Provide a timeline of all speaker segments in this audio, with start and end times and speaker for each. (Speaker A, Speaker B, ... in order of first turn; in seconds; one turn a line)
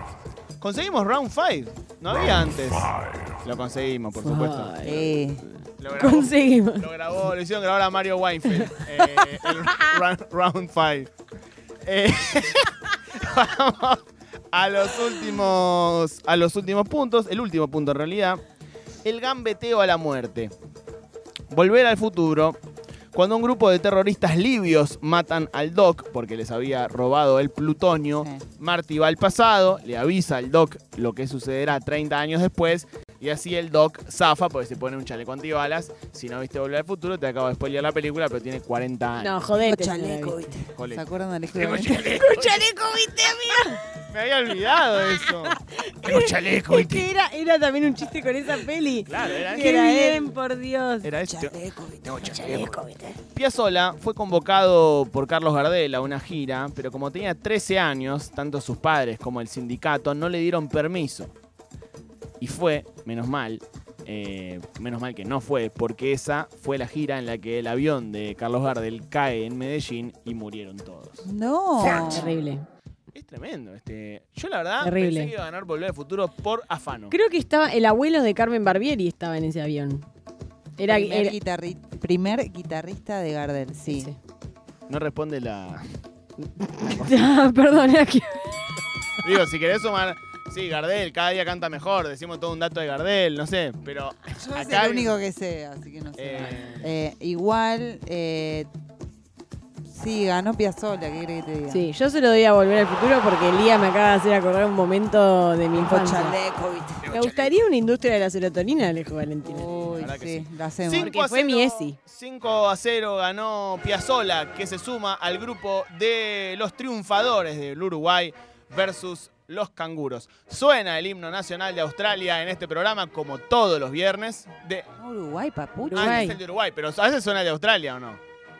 Speaker A: 0.6-4.7
Speaker B: 4.2-5.2
Speaker C: 4.8-5.4
Speaker A: 5.8-11.1
Speaker B: 5.9-6.9
Speaker A: 11.8-18.4
Speaker A: 19.0-20.5
Speaker A: 21.5-22.6
Speaker A: 23.1-39.4
Speaker B: 39.1-40.4
Speaker C: 39.5-42.0
Speaker A: 40.8-42.7
Speaker B: 42.0-43.8
Speaker A: 44.1-47.0
Speaker B: 45.9-51.1
Speaker A: 49.0-50.0
Speaker C: 49.3-50.3
Speaker A: 51.0-52.7
Speaker C: 51.3-52.3
Speaker B: 52.1-53.2
Speaker A: 53.3-61.3
Speaker A: 62.4-71.2
Speaker C: 71.2-72.3
Speaker B: 72.1-72.6
Speaker A: 73.1-77.1
Speaker B: 74.8-75.3
Speaker B: 77.1-80.1
Speaker B: 80.8-81.3
Speaker C: 80.9-84.1
Speaker B: 83.8-84.2
Speaker A: 84.9-85.8
Speaker B: 86.6-88.8
Speaker A: 86.8-87.4
Speaker A: 89.2-95.2
Speaker C: 94.3-98.7
Speaker A: 96.2-96.9
Speaker C: 99.9-101.9
Speaker B: 101.7-106.3
Speaker C: 105.7-107.0
Speaker A: 107.0-107.6
Speaker B: 107.1-109.9
Speaker C: 109.4-111.1
Speaker A: 109.9-124.9
Speaker B: 111.0-112.0
Speaker C: 125.0-126.2
Speaker B: 125.9-126.4
Speaker A: 125.9-128.2